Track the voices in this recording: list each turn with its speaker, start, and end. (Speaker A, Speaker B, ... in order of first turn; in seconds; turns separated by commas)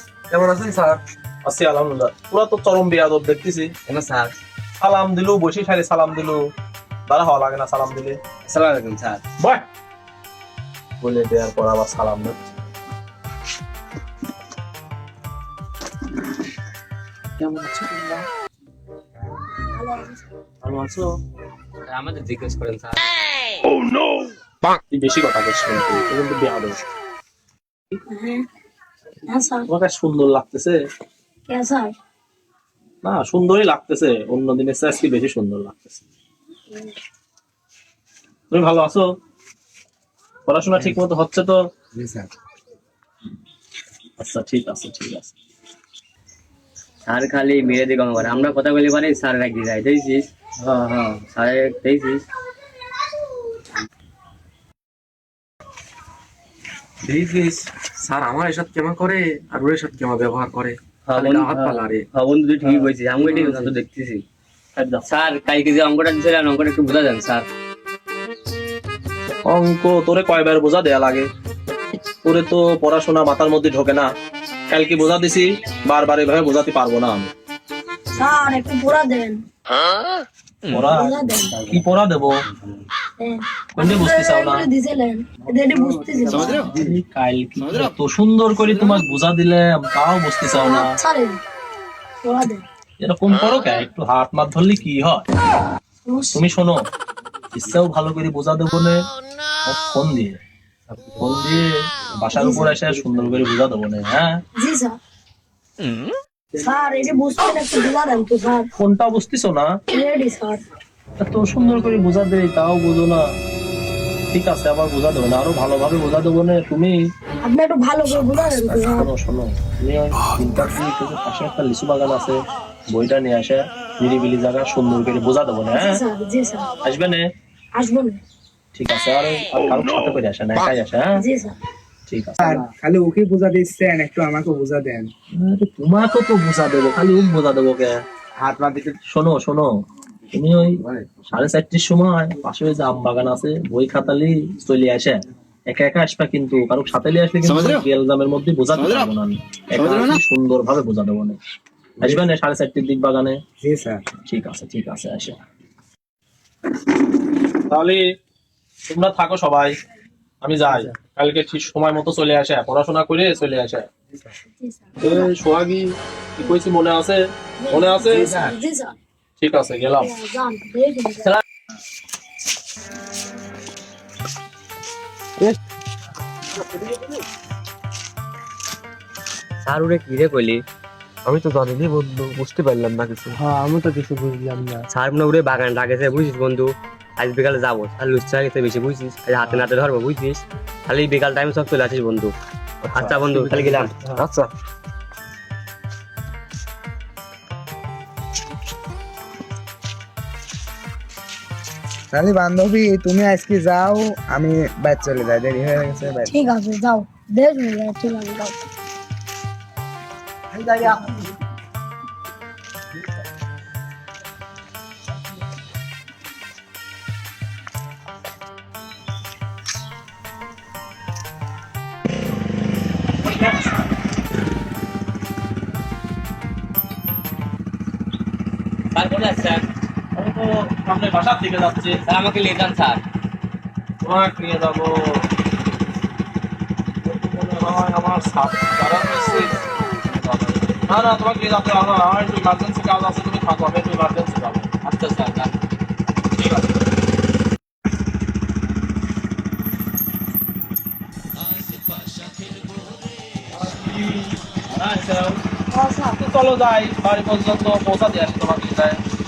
Speaker A: 0.3-1.0, Speaker B: 1.4-3.7, Speaker C: 3.9-4.3, Speaker B: 4.8-6.4, Speaker B: 7.1-8.2, Speaker C: 8.4-9.2, Speaker B: 11.0-12.5, Speaker B: 17.4-18.2, Speaker D: 19.7-20.2, Speaker B: 20.6-21.1, Speaker C: 21.9-23.0, Speaker B: 24.9-26.8, Speaker D: 28.1-28.4, Speaker D: 29.3-29.7, Speaker B: 29.7-30.8, Speaker D: 31.5-31.9, Speaker B: 33.0-36.0, Speaker B: 38.5-39.0, Speaker B: 40.5-41.5, Speaker E: 42.0-42.3, Speaker B: 44.2-45.3, Speaker C: 47.1-50.3, Speaker C: 51.1-52.2, Speaker A: 57.0-62.0, Speaker C: 61.0-64.2, Speaker B: 62.6-63.7, Speaker B: 64.8-65.1, Speaker C: 65.0-67.5, Speaker B: 69.5-71.3, Speaker B: 72.2-74.1, Speaker B: 74.7-77.3, Speaker D: 78.1-79.4, Speaker B: 80.7-82.3, Speaker D: 80.8-81.7, Speaker D: 83.2-86.7, Speaker B: 83.8-84.7, Speaker B: 86.4-91.0, Speaker D: 90.5-91.4, Speaker D: 92.2-92.6, Speaker B: 93.0-95.2, Speaker D: 96.1-96.5, Speaker B: 96.3-96.8, Speaker B: 97.5-99.0, Speaker B: 99.7-100.4, Speaker B: 101.2-104.3, Speaker D: 102.3-102.8, Speaker D: 104.6-105.0, Speaker D: 106.6-108.7, Speaker B: 108.8-109.7, Speaker D: 109.9-110.6, Speaker B: 111.2-113.2, Speaker B: 114.3-116.9, Speaker D: 117.4-119.1, Speaker B: 118.4-122.3, Speaker B: 122.9-126.0, Speaker D: 125.7-126.7, Speaker B: 126.8-127.2, Speaker D: 127.7-128.2, Speaker B: 128.7-131.2, Speaker D: 131.2-131.6, Speaker B: 132.1-132.7, Speaker E: 132.4-135.1, Speaker B: 135.3-138.0, Speaker E: 138.4-139.0, Speaker B: 139.1-139.7, Speaker B: 140.3-151.4, Speaker B: 152.0-153.4, Speaker E: 153.6-154.0, Speaker B: 154.3-155.4, Speaker B: 157.7-158.0, Speaker B: 158.9-159.7, Speaker B: 160.4-163.9, Speaker D: 164.6-165.3, Speaker B: 165.0-168.4, Speaker D: 167.6-168.9, Speaker B: 169.4-170.1, Speaker D: 169.9-171.3, Speaker C: 179.6-180.6, Speaker A: 181.7-183.2, Speaker B: 183.4-184.7, Speaker C: 184.9-192.3, Speaker C: 192.9-194.2, Speaker A: 193.0-194.5, Speaker E: 202.1-206.3, Speaker D: 206.3-208.6, Speaker E: 210.5-211.1, Speaker C: 228.9-229.6, Speaker B: 230.1-231.9, Speaker C: 232.0-233.0, Speaker B: 234.0-235.2, Speaker B: 237.0-239.5, Speaker B: 240.0-245.5, Speaker B: 246.3-246.8, Speaker B: 253.6-255.4, Speaker D: 255.7-256.1, Speaker B: 256.1-259.0